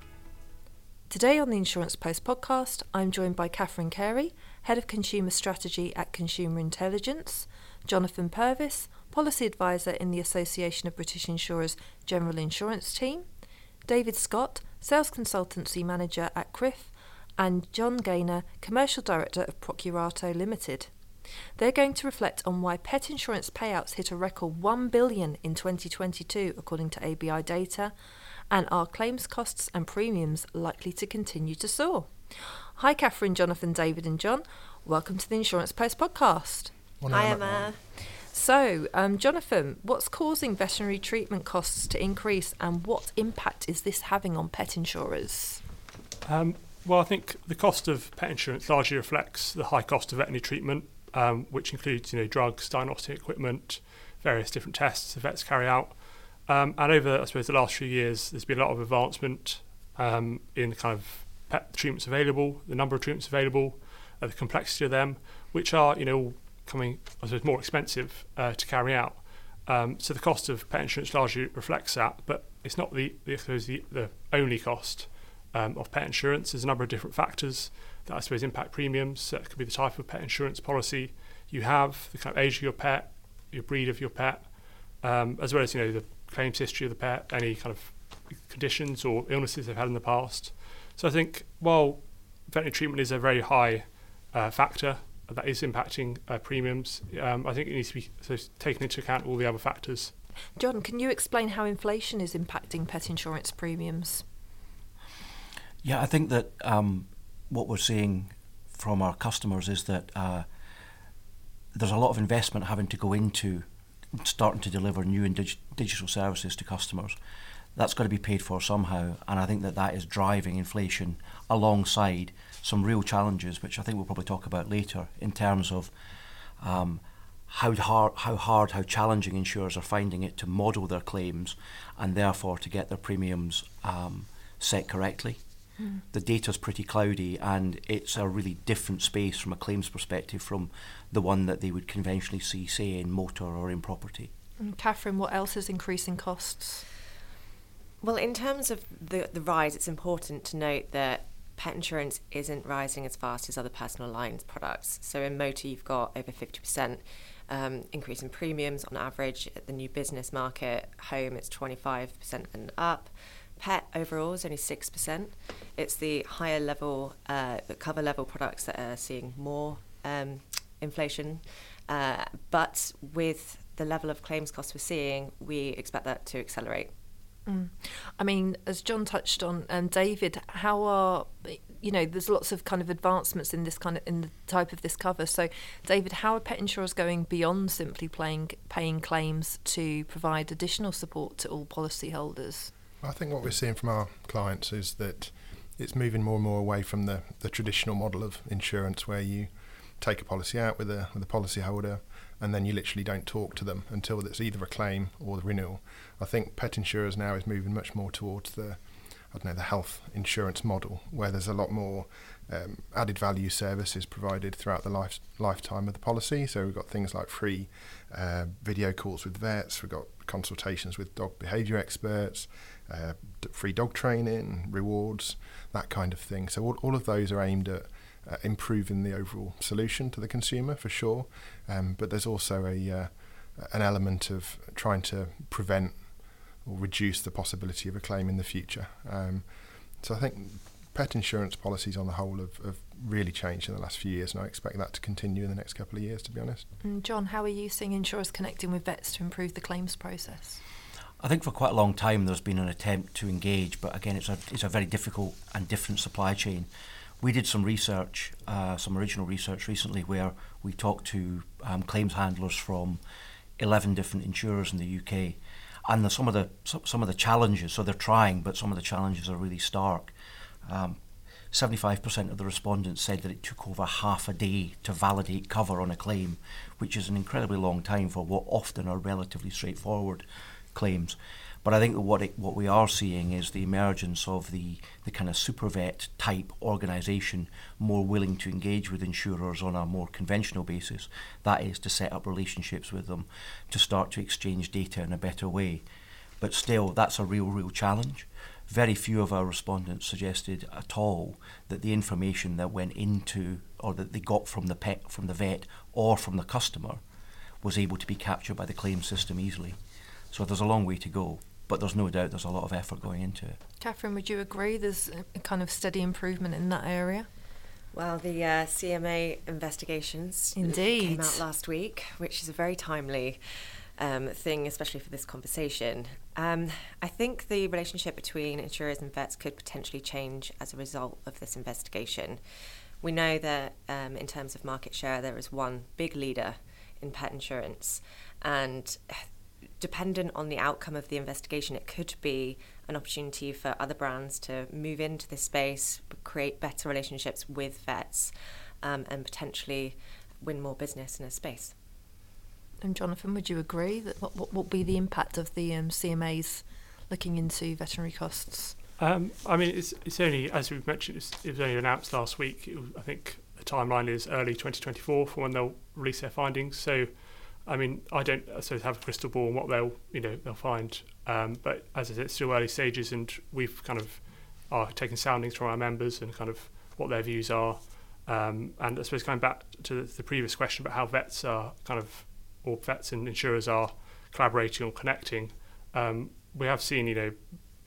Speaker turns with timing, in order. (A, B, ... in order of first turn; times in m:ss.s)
0:01.1-0:13.2 A
0:13.9-0:20.9 A
0:21.6-0:27.9 A
0:28.5-0:36.7 A
0:37.0-0:37.7 B
0:37.1-0:37.8 C
0:38.3-0:45.6 A
0:46.2-1:40.1 D
1:40.6-1:44.2 A
1:45.8-1:50.5 E
1:51.8-1:57.2 E
1:57.8-2:05.9 E
2:06.6-2:15.4 E
2:16.1-2:24.3 E
2:24.6-2:26.9 A
2:28.0-2:56.9 C
2:57.5-3:12.7 A
3:13.0-3:28.8 B
3:29.3-3:56.0 B
3:56.6-3:59.5 B
4:00.0-4:06.7 B
4:06.8-4:10.6 A
4:11.2-4:16.7 E
4:17.2-4:23.0 E
4:23.6-4:30.1 E
4:30.7-4:31.0 E
4:31.5-4:55.8 E
4:56.4-5:07.0 E
5:07.6-5:09.8 E
5:10.3-5:13.6 E
5:13.8-5:17.3 A
5:17.9-5:32.4 C
5:20.6-5:21.4 A
5:33.0-5:39.3 C
5:39.8-5:51.7 C
5:52.8-5:58.8 A
5:59.0-6:27.4 D